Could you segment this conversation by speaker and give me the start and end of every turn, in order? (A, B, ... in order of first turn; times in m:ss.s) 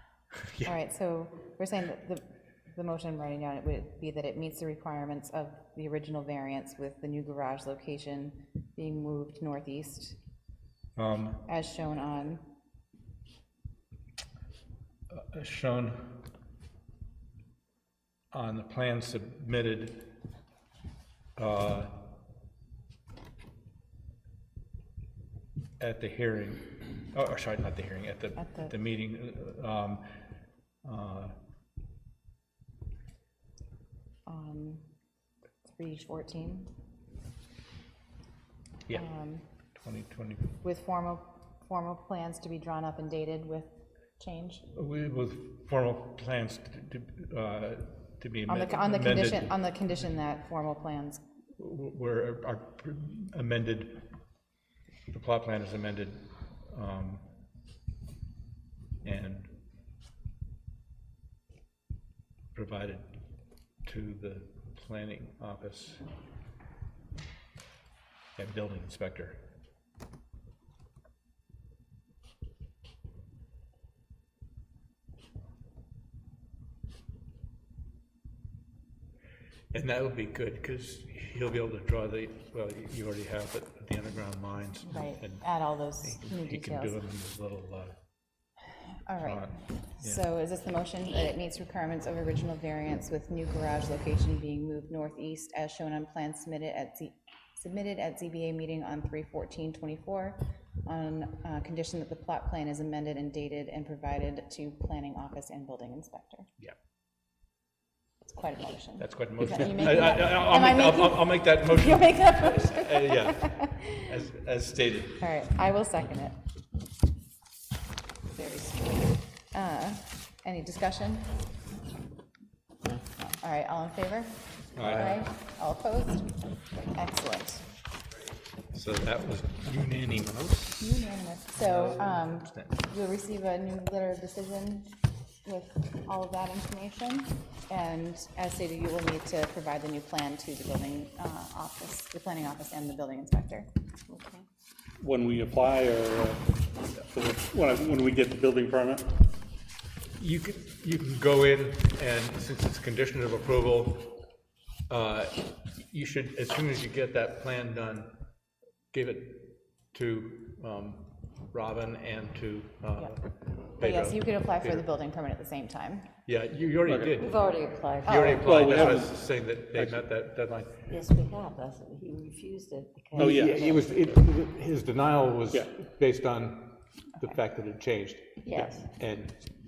0:00.3-0:00.7 A
0:00.6-0:10.2 B
0:11.0-0:11.4 A
0:11.5-0:12.4 B
0:15.1-0:16.2 A
0:18.3-0:20.2 A
0:21.4-0:22.1 A
0:25.8-0:30.0 A
0:28.4-0:28.7 B
0:30.8-0:31.3 A
0:34.2-0:34.8 B
0:35.6-0:36.7 B
0:38.9-0:39.4 B
0:39.7-0:40.5 A
0:40.6-0:44.7 B
0:44.7-0:49.6 A
0:48.5-0:51.2 B
0:51.6-0:54.1 A
0:55.1-0:57.2 A
0:59.0-0:59.5 A
1:02.5-1:03.0 A
1:03.8-1:06.0 A
1:08.4-1:09.4 A
1:19.7-1:25.5 A
1:24.8-1:27.0 B
1:26.0-1:28.0 A
1:29.0-1:46.5 B
1:29.2-1:30.2 A
1:48.2-1:53.9 B
1:49.0-1:55.2 A
1:55.2-1:56.4 B
1:58.3-2:01.4 B
2:03.2-2:06.3 B
2:04.8-2:05.2 A
2:06.9-2:07.6 B
2:08.7-2:10.9 A
2:10.8-2:23.7 B
2:11.6-2:12.7 A
2:24.1-2:24.4 C
2:25.0-2:26.4 D
2:27.1-2:29.1 D
2:30.2-2:34.2 A
2:34.9-2:38.2 A
2:38.9-2:44.8 A
2:43.8-2:46.1 B
2:46.2-2:47.4 A
2:46.8-2:47.1 D
2:47.2-2:48.9 C
2:48.0-2:50.8 A
2:48.0-2:48.5 B
2:48.4-2:49.1 D
2:50.9-2:53.9 C
2:53.2-2:53.6 D
2:53.2-2:59.4 A
2:58.4-2:58.8 C